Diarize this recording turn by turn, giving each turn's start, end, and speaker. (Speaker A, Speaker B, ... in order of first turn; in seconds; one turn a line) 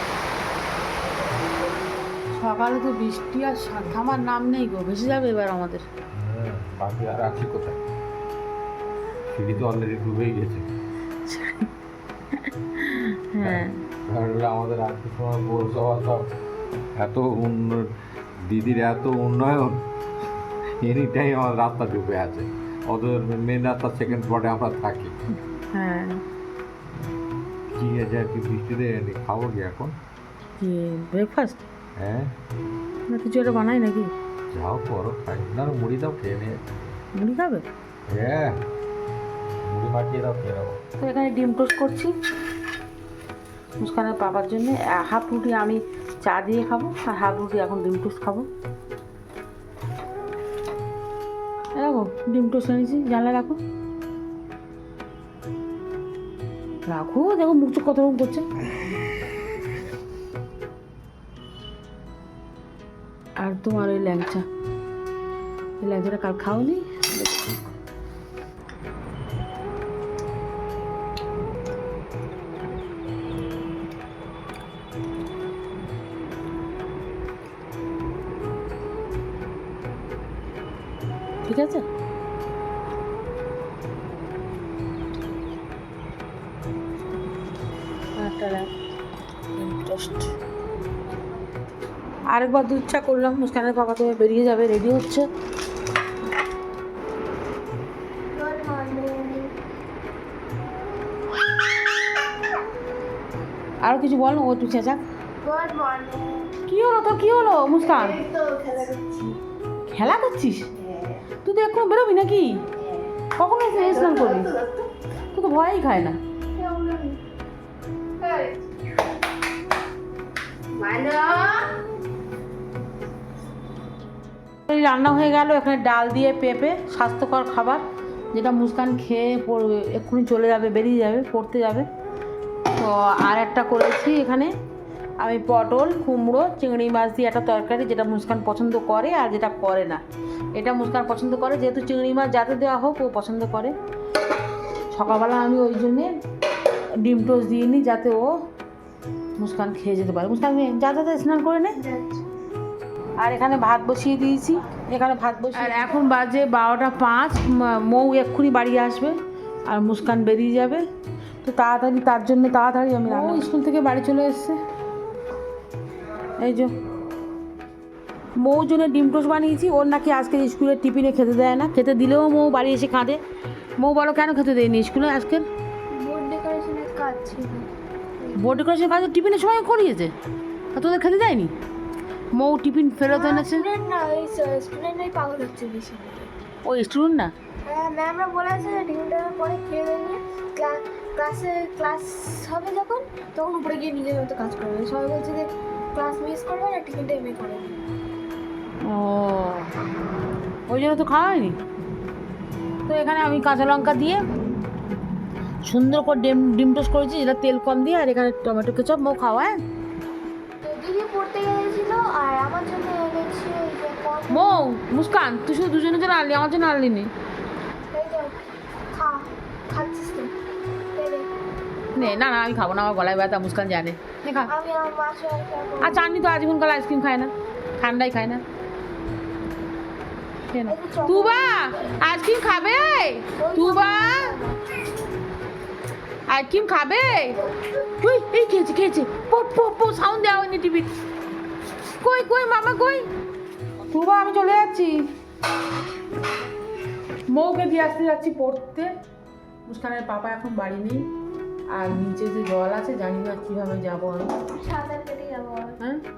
Speaker A: 2.3-5.8
Speaker B: 6.1-7.8
Speaker B: 9.3-10.7
Speaker A: 11.2-11.7
Speaker A: 12.3-13.8
Speaker B: 13.4-16.3
Speaker B: 17.0-17.9
Speaker B: 18.4-19.8
Speaker B: 20.8-25.1
Speaker A: 25.7-26.2
Speaker B: 27.7-29.9
Speaker A: 30.6-31.6
Speaker B: 32.0-32.3
Speaker A: 33.1-34.1
Speaker B: 34.5-36.7
Speaker A: 37.2-37.7
Speaker B: 38.1-38.6
Speaker B: 39.6-40.8
Speaker A: 41.0-42.1
Speaker A: 43.8-48.5
Speaker A: 51.8-53.6
Speaker A: 56.9-58.5
Speaker A: 63.4-64.5
Speaker A: 65.8-67.6
Speaker A: 81.5-81.8
Speaker A: 88.2-88.7
Speaker A: 89.5-90.3
Speaker A: 92.3-95.3
Speaker C: 98.3-99.5
Speaker A: 103.8-105.0
Speaker C: 105.4-106.6
Speaker A: 106.7-108.2
Speaker C: 107.8-109.4
Speaker A: 109.9-110.7
Speaker C: 110.8-111.2
Speaker A: 111.4-112.7
Speaker C: 112.8-113.1
Speaker A: 113.3-114.5
Speaker C: 113.8-114.8
Speaker A: 115.3-116.2
Speaker C: 116.6-117.2
Speaker C: 118.2-118.6
Speaker C: 120.7-121.8
Speaker A: 124.7-127.8
Speaker A: 128.3-131.9
Speaker A: 132.7-134.5
Speaker A: 135.2-140.0
Speaker A: 140.5-143.8
Speaker A: 144.9-146.1
Speaker A: 147.0-148.3
Speaker A: 149.4-151.8
Speaker C: 151.8-152.2
Speaker A: 153.2-159.2
Speaker C: 155.6-155.9
Speaker A: 159.7-160.8
Speaker A: 161.4-164.6
Speaker C: 163.1-163.4
Speaker A: 166.4-166.7
Speaker A: 168.4-173.2
Speaker A: 173.8-175.4
Speaker C: 176.0-177.7
Speaker A: 178.3-180.1
Speaker A: 180.7-181.5
Speaker A: 182.3-183.7
Speaker C: 183.1-186.3
Speaker A: 186.7-187.3
Speaker C: 187.7-197.8
Speaker A: 198.8-199.7
Speaker A: 200.7-201.6
Speaker A: 202.9-204.2
Speaker A: 205.7-209.6
Speaker C: 210.6-214.5
Speaker A: 214.3-217.1
Speaker C: 217.9-218.3
Speaker C: 218.9-220.3
Speaker C: 220.9-221.3
Speaker A: 221.9-224.5
Speaker C: 224.5-226.0
Speaker A: 225.8-228.4
Speaker A: 230.5-234.3
Speaker C: 230.7-231.8
Speaker C: 233.4-234.6
Speaker A: 236.3-237.4
Speaker A: 238.0-240.9
Speaker A: 242.0-243.1
Speaker A: 243.9-245.1
Speaker A: 247.3-248.9
Speaker A: 249.7-251.1
Speaker A: 251.7-254.3
Speaker C: 254.5-255.8